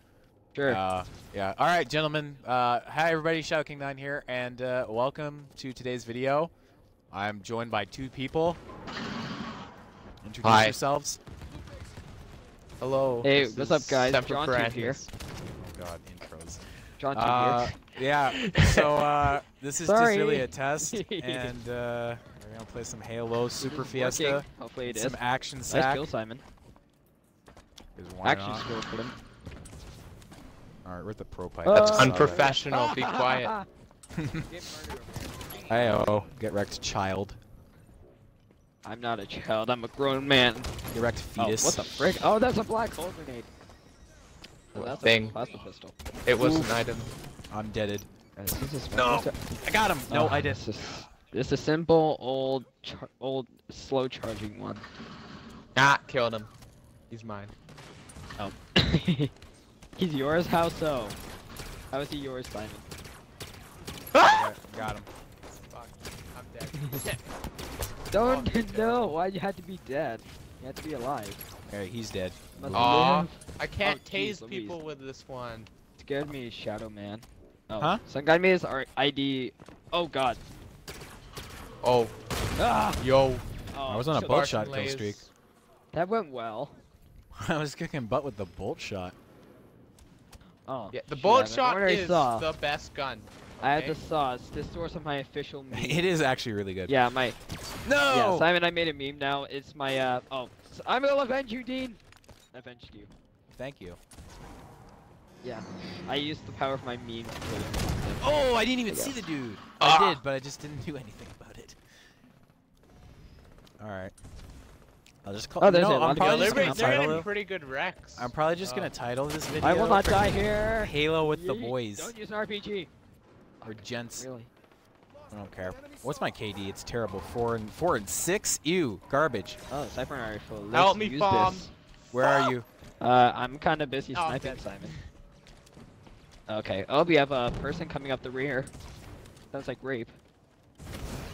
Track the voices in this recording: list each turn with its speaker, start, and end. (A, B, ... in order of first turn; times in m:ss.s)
0:00.5-0:00.8 A
0:00.6-0:06.5 B
0:07.1-0:08.6 B
0:10.2-0:11.2 B
0:10.4-0:10.8 C
0:12.8-0:15.1 C
0:13.2-0:15.0 A
0:15.4-0:26.1 B
0:17.0-0:17.7 A
0:18.2-0:19.4 C
0:19.8-0:21.6 A
0:23.6-0:26.4 A
0:28.0-0:28.7 B
0:28.2-0:29.1 A
0:30.8-0:32.4 B
0:31.6-0:33.6 A
0:31.7-0:33.5 C
0:34.2-0:34.4 B
0:34.4-0:36.1 A
0:35.7-0:37.4 B
0:38.8-0:40.7 A
0:40.9-0:42.0 B
0:41.4-0:43.5 A
0:44.7-0:45.9 A
0:44.8-0:45.4 C
0:46.2-0:47.1 C
0:46.4-0:46.7 B
0:47.5-0:48.1 B
0:48.4-0:49.4 A
0:48.9-0:50.7 B
0:50.1-0:54.8 A
0:55.7-0:56.5 C
0:57.1-0:57.5 C
0:58.4-0:59.3 A
1:00.0-1:01.2 A
1:01.9-1:02.8 A
1:04.1-1:04.5 C
1:04.2-1:05.1 B
1:05.7-1:07.3 C
1:06.7-1:07.0 A
1:08.1-1:11.4 A
1:08.2-1:09.1 C
1:11.7-1:13.3 B
1:12.6-1:14.8 A
1:12.7-1:15.7 C
1:16.0-1:20.4 A
1:21.8-1:22.2 C
1:22.6-1:23.0 A
1:23.0-1:23.4 C
1:23.7-1:24.6 A
1:23.9-1:25.2 B
1:24.1-1:25.3 C
1:25.9-1:26.8 A
1:27.4-1:29.1 B
1:30.6-1:32.5 A
1:30.9-1:34.0 C
1:33.6-1:36.0 A
1:35.7-1:36.9 B
1:36.9-1:37.4 A
1:37.8-1:38.5 B
1:38.1-1:42.0 A
1:42.5-1:43.1 A
1:43.5-1:44.0 B
1:45.4-1:49.2 A
1:48.2-1:51.8 B
1:49.8-1:50.2 C
1:53.8-1:54.1 B
1:55.2-1:57.3 B
1:55.6-1:57.2 A
1:56.1-1:58.9 C
1:58.2-2:02.1 B
1:59.6-2:02.9 A
2:03.6-2:04.5 A
2:03.7-2:04.3 B
2:05.3-2:09.6 B
2:09.7-2:11.7 A
2:10.7-2:11.7 C
2:12.1-2:12.7 B
2:12.2-2:12.5 C
2:13.0-2:14.9 A
2:14.1-2:15.0 C
2:16.5-2:18.7 A
2:19.5-2:20.1 A